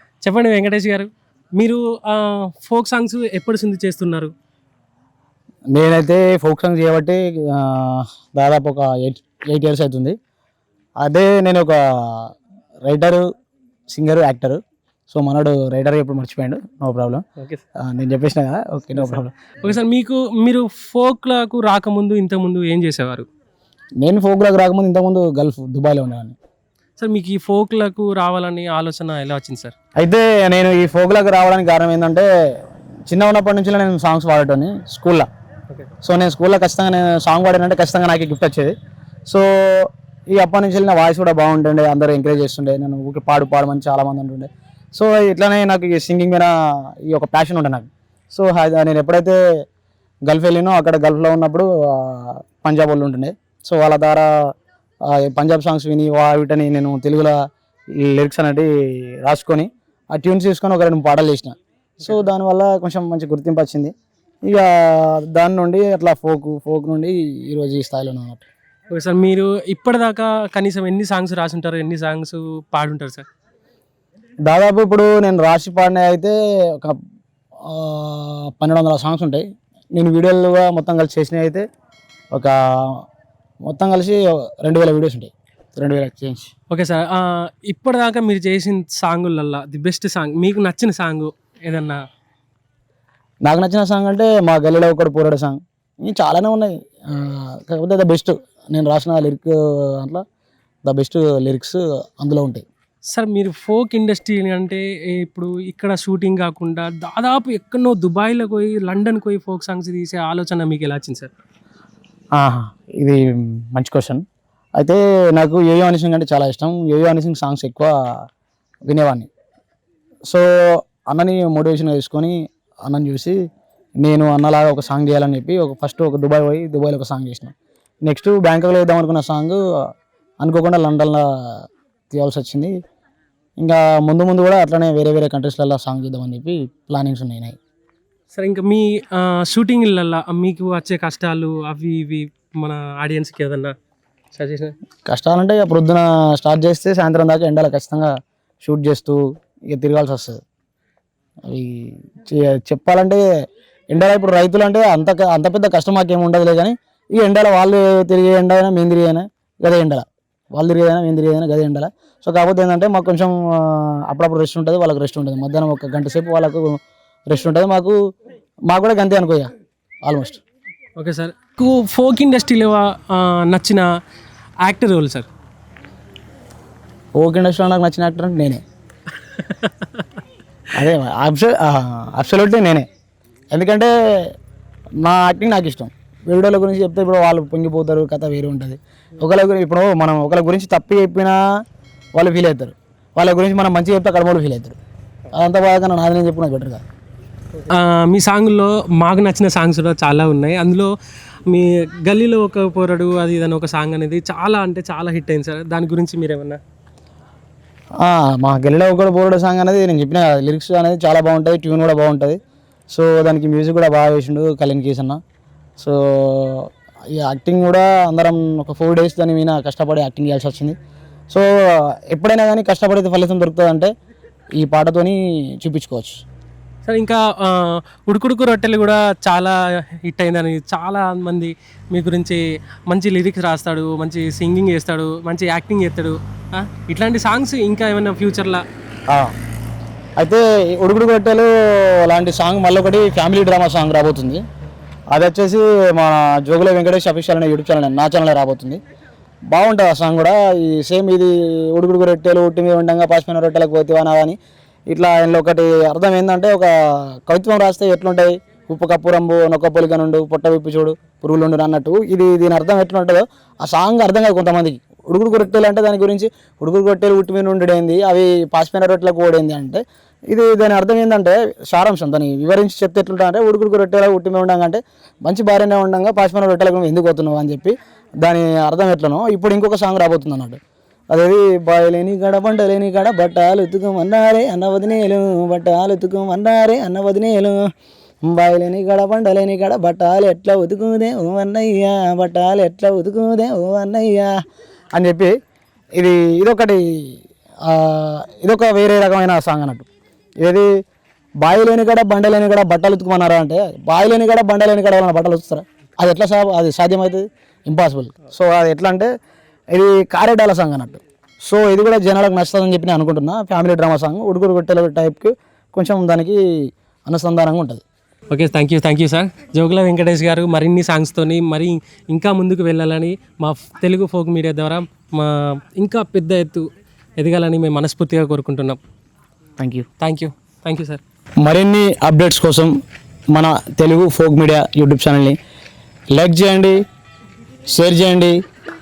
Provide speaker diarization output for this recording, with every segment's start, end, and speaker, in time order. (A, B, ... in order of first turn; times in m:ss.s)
0:00.2-0:04.3 A
0:05.7-0:10.2 B
0:11.0-0:12.3 B
0:12.8-0:13.2 B
0:13.9-0:14.6 B
0:15.1-0:17.2 B
0:17.8-0:19.8 B
0:19.0-0:23.3 A
0:24.0-0:26.4 B
0:27.0-0:29.7 A
0:30.0-0:32.3 B
0:33.1-0:35.3 B
0:36.0-0:38.7 B
0:39.3-0:46.5 B
0:47.0-0:49.4 B
0:50.3-0:54.3 B
0:55.1-0:57.4 B
0:58.0-0:58.7 B
0:59.2-1:03.9 B
1:04.4-1:08.4 B
1:08.9-1:13.3 A
1:14.4-1:17.0 B
1:17.6-1:19.4 B
1:19.9-1:21.6 B
1:22.3-1:23.0 B
1:23.7-1:26.5 B
1:26.7-1:32.0 A
1:33.4-1:40.2 B
1:40.8-1:42.6 B
1:43.1-1:51.3 A
1:52.4-1:53.2 B
1:53.7-1:54.2 B
1:54.8-1:58.0 B
1:58.9-1:59.3 B
2:00.3-2:03.4 B
2:04.0-2:09.6 B
2:10.4-2:12.7 B
2:13.6-2:17.6 B
2:18.3-2:23.7 A
2:24.3-2:24.8 A
2:25.1-2:30.4 B
2:31.5-2:33.2 B
2:33.9-2:48.0 B
2:48.7-2:49.5 B
2:50.0-2:50.4 B
2:51.0-2:53.9 A
2:54.6-2:55.3 A
2:57.2-2:58.6 B
2:59.6-2:59.9 A
3:00.7-3:02.9 B
3:03.5-3:04.3 B
3:05.0-3:11.4 B
3:12.2-3:14.8 B
3:15.3-3:16.8 B
3:17.7-3:20.9 A
3:21.5-3:26.6 A
3:28.0-3:32.4 B
3:32.9-3:35.2 B
3:35.8-3:40.8 B
3:41.3-3:43.9 B
3:44.6-3:46.2 B
3:46.8-3:58.6 A
3:59.1-3:59.3 B
4:00.2-4:04.4 B
4:05.1-4:08.8 B
4:09.5-4:14.4 B
4:14.9-4:40.6 B
4:41.1-4:47.7 B
4:48.3-4:54.4 B
4:54.9-4:55.3 B
4:56.0-4:59.9 B
5:01.4-5:09.1 B
5:09.7-5:16.4 B
5:17.1-5:17.8 B
5:18.3-5:26.7 A
5:27.2-5:28.8 A
5:29.6-5:29.9 B
5:30.0-5:31.0 A
5:31.4-5:32.7 B
5:33.3-5:35.4 B
5:36.1-5:36.8 B
5:37.7-5:38.4 B